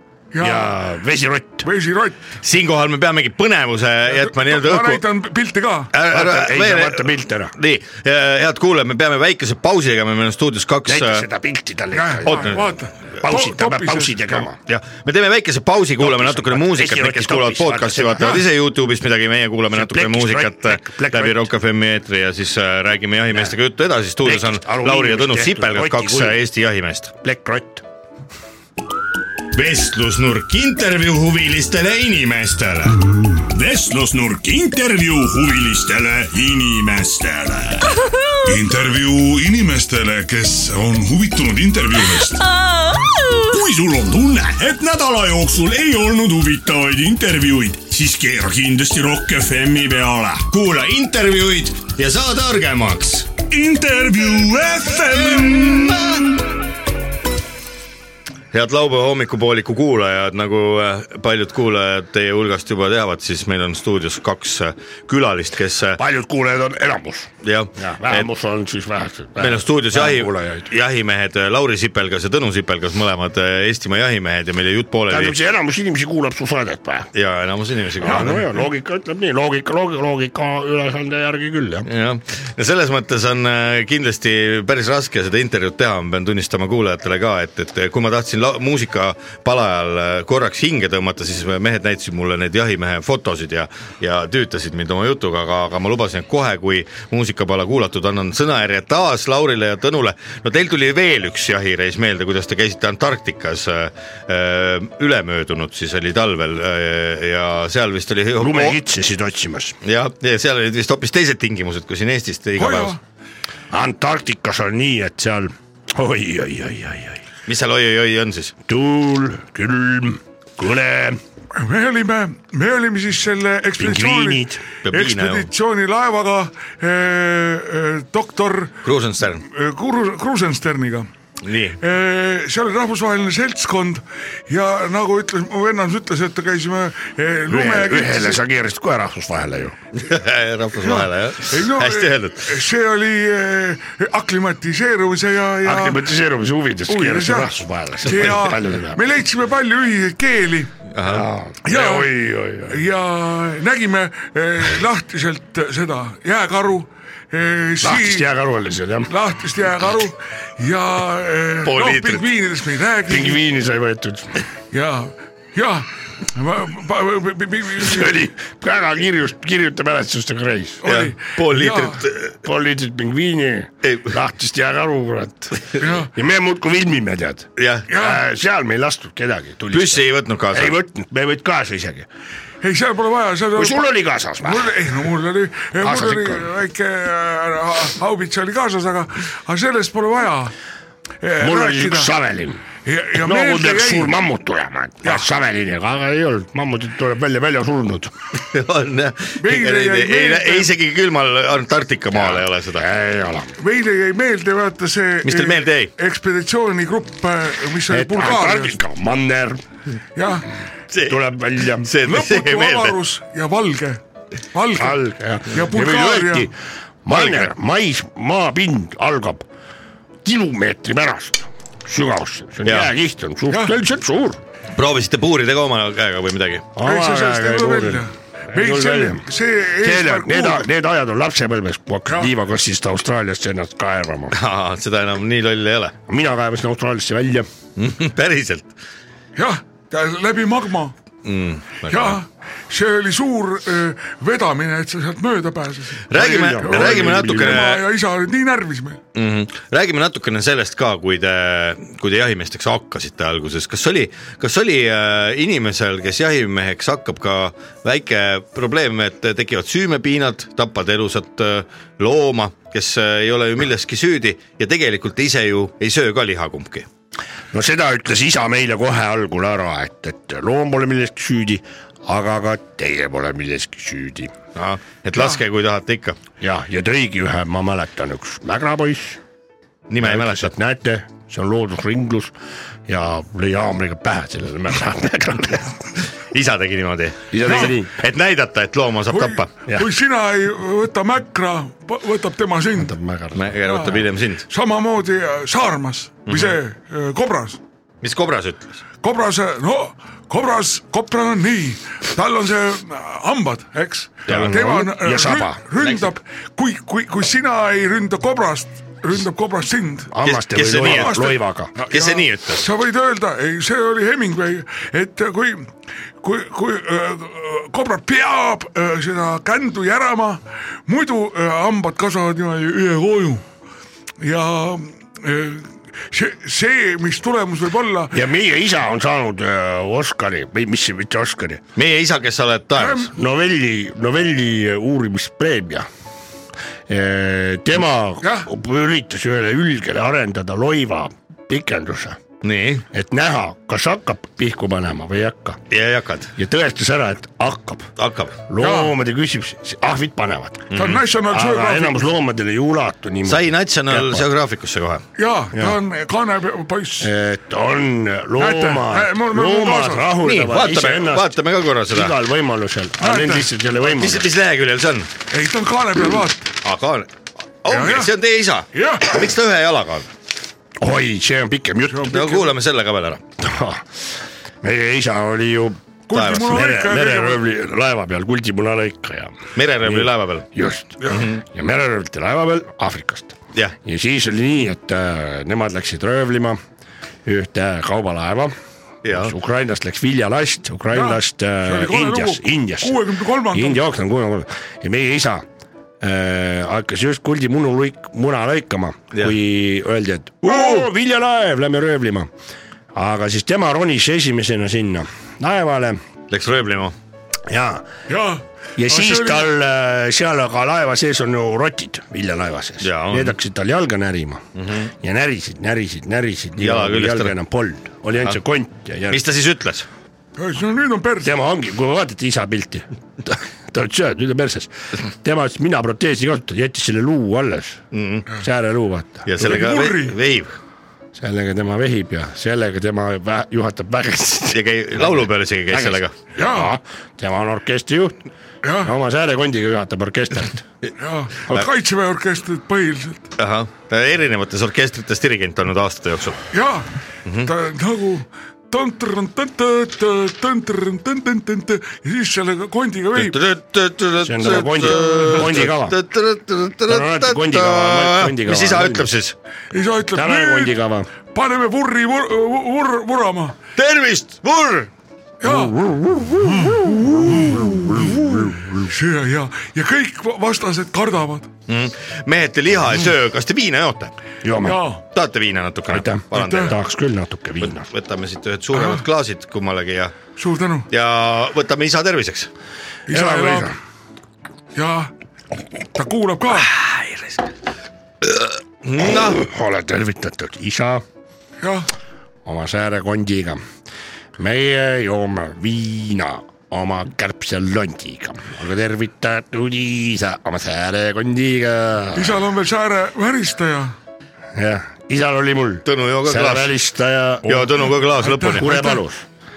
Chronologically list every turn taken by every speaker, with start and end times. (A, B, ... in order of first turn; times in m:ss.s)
0:00.3-0:00.7 A
0:00.4-0:01.7 B
0:01.6-0:02.2 A
0:02.4-0:05.0 C
0:04.1-0:05.9 A
0:05.9-0:11.2 C
0:06.0-0:07.5 B
0:10.8-0:12.7 B
0:11.9-0:14.3 A
0:12.2-0:12.6 C
0:13.2-0:14.6 B
0:14.6-0:27.1 C
0:16.0-0:18.4 B
0:19.7-0:21.5 B
0:24.2-0:26.4 B
0:27.2-0:27.8 B
0:29.5-0:33.0 C
0:33.4-0:38.0 D
0:38.4-0:42.6 E
0:43.3-0:50.5 D
0:50.5-0:53.3 C
0:53.5-0:56.0 D
0:58.5-1:06.0 C
1:06.0-1:10.7 B
1:07.4-1:08.3 C
1:09.4-1:15.4 C
1:15.1-1:17.1 B
1:17.1-1:18.5 C
1:18.0-1:21.9 B
1:21.8-1:48.8 C
1:48.4-1:49.8 B
1:49.8-1:53.0 C
1:52.6-1:53.0 A
1:53.7-1:57.2 B
1:57.4-1:58.5 C
1:58.7-2:01.2 B
2:01.5-2:08.8 A
2:03.8-2:04.6 B
2:04.8-2:05.5 C
2:08.8-2:09.4 C
2:09.4-2:11.1 A
2:11.4-2:11.8 C
2:11.8-2:18.4 A
2:17.5-2:19.8 B
2:20.0-2:22.5 C
2:20.8-2:26.0 A
2:25.6-2:29.0 B
2:26.9-2:30.7 A
2:30.9-2:31.3 C
2:31.0-2:32.8 B
2:31.6-2:32.1 A
2:32.7-2:38.2 A
2:37.8-2:39.1 B
2:39.1-2:43.4 A
2:41.6-2:42.2 C
2:43.1-2:44.3 B
2:44.7-2:48.1 A
2:47.8-2:50.8 B
2:50.8-2:52.0 A
2:50.8-2:52.4 C
2:52.4-3:02.1 B
2:53.8-2:54.1 C
2:55.8-2:56.1 A
2:57.6-2:57.9 C
2:57.9-2:58.2 A
2:59.7-3:00.8 C
3:02.6-3:10.5 A
3:03.6-3:04.8 B
3:05.8-3:06.5 B
3:11.2-3:12.1 A
3:11.4-3:12.6 B
3:12.8-3:14.2 A
3:13.1-3:18.1 B
3:18.4-3:22.8 C
3:19.4-3:20.7 A
3:22.1-3:23.5 B
3:23.6-3:28.8 A
3:25.2-3:25.9 C
3:27.9-3:29.6 B
3:30.2-3:30.5 A
3:30.9-3:31.2 C
3:31.0-3:31.9 B
3:31.8-3:33.0 C
3:32.0-3:34.0 A
3:34.5-3:36.5 A
3:34.7-3:36.5 B
3:37.0-3:39.5 B
3:37.1-3:37.4 A
3:40.2-3:44.4 B
3:42.6-3:42.9 C
3:43.5-3:43.8 A
3:44.7-3:46.7 C
3:46.7-3:49.2 B
3:46.8-3:50.6 A
3:49.8-3:54.4 B
3:52.1-3:52.3 A
3:54.3-3:55.9 C
3:56.1-3:57.5 B
3:57.8-3:58.7 C
3:59.4-4:00.9 A
4:01.2-4:02.2 C
4:01.9-4:09.0 A
4:06.1-4:07.8 C
4:06.1-4:07.6 B
4:09.1-4:26.9 C
4:27.5-4:34.3 B
4:34.5-4:36.2 C
4:36.4-4:39.2 B
4:39.9-4:40.5 C
4:40.0-4:42.3 B
4:42.9-4:45.8 B
4:46.2-4:49.5 C
4:47.3-4:48.0 B
4:47.4-4:47.7 A
4:49.1-4:52.9 A
4:52.7-4:53.6 B
4:53.3-4:54.4 C
4:53.7-4:57.6 A
4:56.2-4:56.5 C
4:58.0-4:58.8 C
4:59.0-5:10.1 A
5:04.3-5:04.5 C
5:04.3-5:05.7 B
5:05.8-5:06.1 C
5:10.1-5:11.7 B
5:10.2-5:11.3 C
5:10.7-5:23.4 A
5:11.9-5:12.6 C
5:24.2-5:28.2 A
5:28.1-5:31.6 B
5:31.8-5:33.1 C
5:32.8-5:33.1 A
5:33.1-5:35.9 B
5:36.9-5:42.2 B
5:38.2-5:38.5 A
5:42.4-5:42.8 C
5:42.9-5:45.6 B
5:45.7-5:46.3 C
5:46.4-5:50.7 B
5:48.0-5:48.3 C
5:48.6-5:48.9 A
5:50.7-5:51.0 C
5:50.7-5:52.0 A
5:51.3-5:54.2 B
5:53.2-5:55.0 C
5:55.2-5:57.1 A
5:55.5-5:55.8 B
5:57.0-6:01.4 B
5:58.4-6:00.1 A
6:00.2-6:02.1 C
6:01.9-6:04.3 B
6:03.0-6:03.5 A
6:03.8-6:05.1 C
6:05.3-6:06.5 A
6:06.6-6:07.1 C
6:07.6-6:10.1 C
6:07.7-6:08.1 A
6:08.7-6:09.2 A
6:10.8-6:12.2 B
6:11.9-6:12.5 A
6:12.1-6:13.2 C
6:13.4-6:14.1 B
6:14.6-6:15.8 B
6:16.1-6:17.4 A
6:16.1-6:16.6 C
6:16.4-6:26.6 B
6:19.5-6:20.5 C
6:21.0-6:21.3 A
6:21.1-6:21.4 C
6:27.2-6:28.5 B
6:29.0-6:29.3 C
6:29.1-6:35.4 B
6:30.9-6:33.8 A
6:36.0-6:42.3 B
6:40.4-6:40.9 A
6:42.9-6:46.0 B
6:46.3-6:46.9 C
6:47.5-6:47.9 B
6:48.1-6:49.5 A
6:48.8-6:59.2 B
6:52.8-6:53.3 C
6:54.6-6:54.9 C
6:56.6-6:57.3 C
6:59.1-6:59.9 C
7:00.4-7:01.3 A
7:01.2-7:09.6 B
7:07.9-7:08.3 C
7:09.2-7:10.5 C
7:09.4-7:10.2 A
7:11.1-7:18.2 B
7:14.5-7:16.1 C
7:16.4-7:16.7 A
7:18.6-7:18.9 A
7:18.8-7:20.7 B
7:21.0-7:23.3 A
7:23.4-7:26.4 C
7:26.5-7:26.9 A
7:27.2-7:27.5 C
7:27.4-7:33.4 A
7:33.1-7:39.4 C
7:34.2-7:36.0 B
7:35.2-7:35.5 A
7:36.9-7:39.1 B
7:39.7-7:40.7 A
7:40.1-7:41.1 B
7:41.3-7:43.6 A
7:43.8-7:44.9 C
7:45.4-7:45.8 A
7:45.4-7:48.9 B
7:46.4-7:51.5 A
7:51.7-7:54.1 C
7:54.4-7:54.8 B
7:54.6-7:55.0 A
7:55.1-7:56.8 C
7:55.9-7:57.9 B
7:56.3-7:56.7 A
7:57.6-8:00.1 C
7:58.7-7:59.0 A
8:00.4-8:00.9 A
8:00.9-8:02.5 C
8:03.1-8:03.7 A
8:03.1-8:03.8 B
8:04.7-8:05.1 A
8:05.9-8:06.7 A
8:06.6-8:07.5 C
8:08.2-8:09.4 C
8:09.0-8:11.0 B
8:11.6-8:11.9 A
8:12.4-8:13.6 B
8:14.4-8:22.4 B
8:22.1-8:24.0 A
8:24.5-8:27.8 B
8:25.8-8:26.7 C
8:27.4-8:28.9 C
8:28.2-8:29.0 A
8:28.5-8:29.2 B